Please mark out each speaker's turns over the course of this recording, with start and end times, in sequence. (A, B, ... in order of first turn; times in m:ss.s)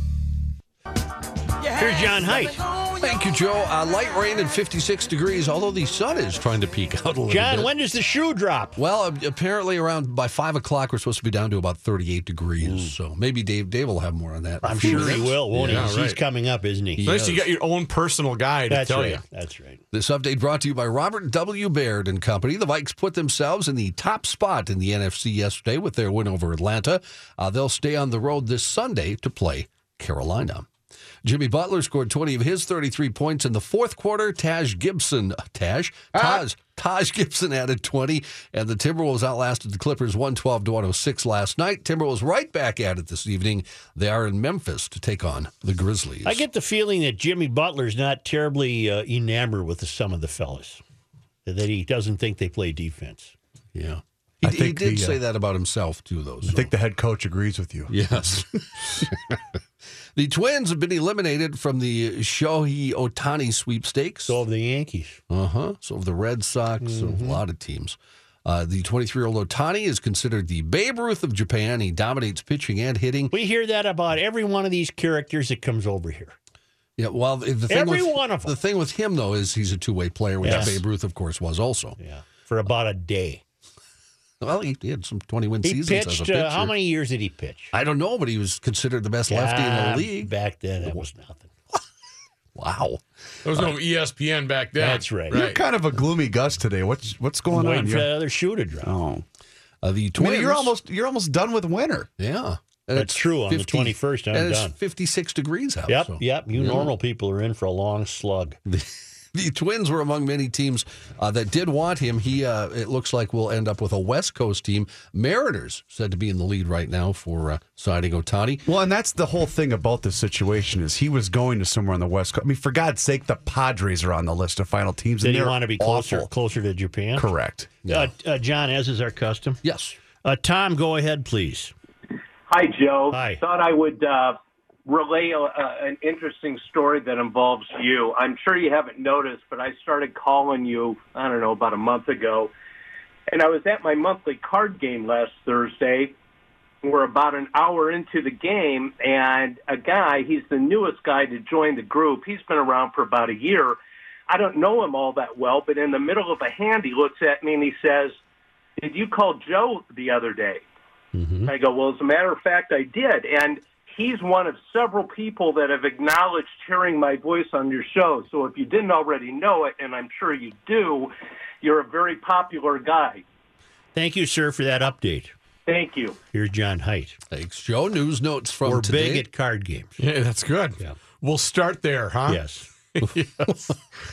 0:01.8-0:02.6 A
0:02.8-0:07.7 B
0:07.3-0:08.8 A
0:08.8-0:15.9 B
0:12.6-0:12.9 A
0:14.6-0:17.4 A
0:14.8-0:16.2 C
0:17.0-0:17.3 B
0:17.0-0:19.2 C
0:18.7-0:19.8 A
0:19.9-0:30.7 B
0:31.2-0:46.4 B
0:36.1-0:36.4 D
0:46.2-0:50.8 A
0:51.4-0:53.3 A
0:53.7-0:56.7 B
0:54.4-0:55.2 D
0:56.4-0:59.1 D
0:57.9-0:59.1 B
1:00.2-1:04.4 B
1:04.3-1:05.2 A
1:05.3-1:13.3 B
1:06.8-1:07.4 A
1:13.3-1:16.3 A
1:17.0-1:22.0 B
1:17.7-1:18.5 A
1:20.4-1:20.8 A
1:20.4-1:20.8 D
1:22.0-1:23.4 A
1:24.4-1:26.7 B
1:25.6-1:27.7 A
1:27.7-1:30.3 B
1:29.3-1:31.5 A
1:32.5-1:33.7 D
1:33.4-1:35.6 C
1:34.8-1:35.4 A
1:35.3-1:38.1 D
1:37.5-1:38.9 A
1:38.8-1:39.2 D
1:39.8-1:40.7 B
1:40.1-1:42.1 D
1:42.2-1:46.9 B
1:42.9-1:44.8 A
1:45.9-1:48.6 A
1:48.6-1:58.7 B
1:58.6-2:06.3 D
2:05.2-2:07.3 A
2:07.2-2:07.7 D
2:07.8-2:08.1 B
2:07.9-2:09.6 A
2:09.6-2:10.0 B
2:10.2-2:11.7 A
2:12.5-2:22.5 E
2:13.1-2:13.4 A
2:23.3-2:26.2 E
2:26.8-2:33.8 E
2:34.3-2:38.1 E
2:38.8-2:40.6 E
2:41.1-2:41.5 A
2:41.4-2:53.2 E
2:53.9-2:55.3 A
2:55.7-2:56.2 E
2:56.3-2:57.2 A
2:57.3-2:59.2 B
2:58.6-2:59.9 A
3:00.0-3:03.6 C
3:02.3-3:02.7 A
3:03.4-3:03.7 B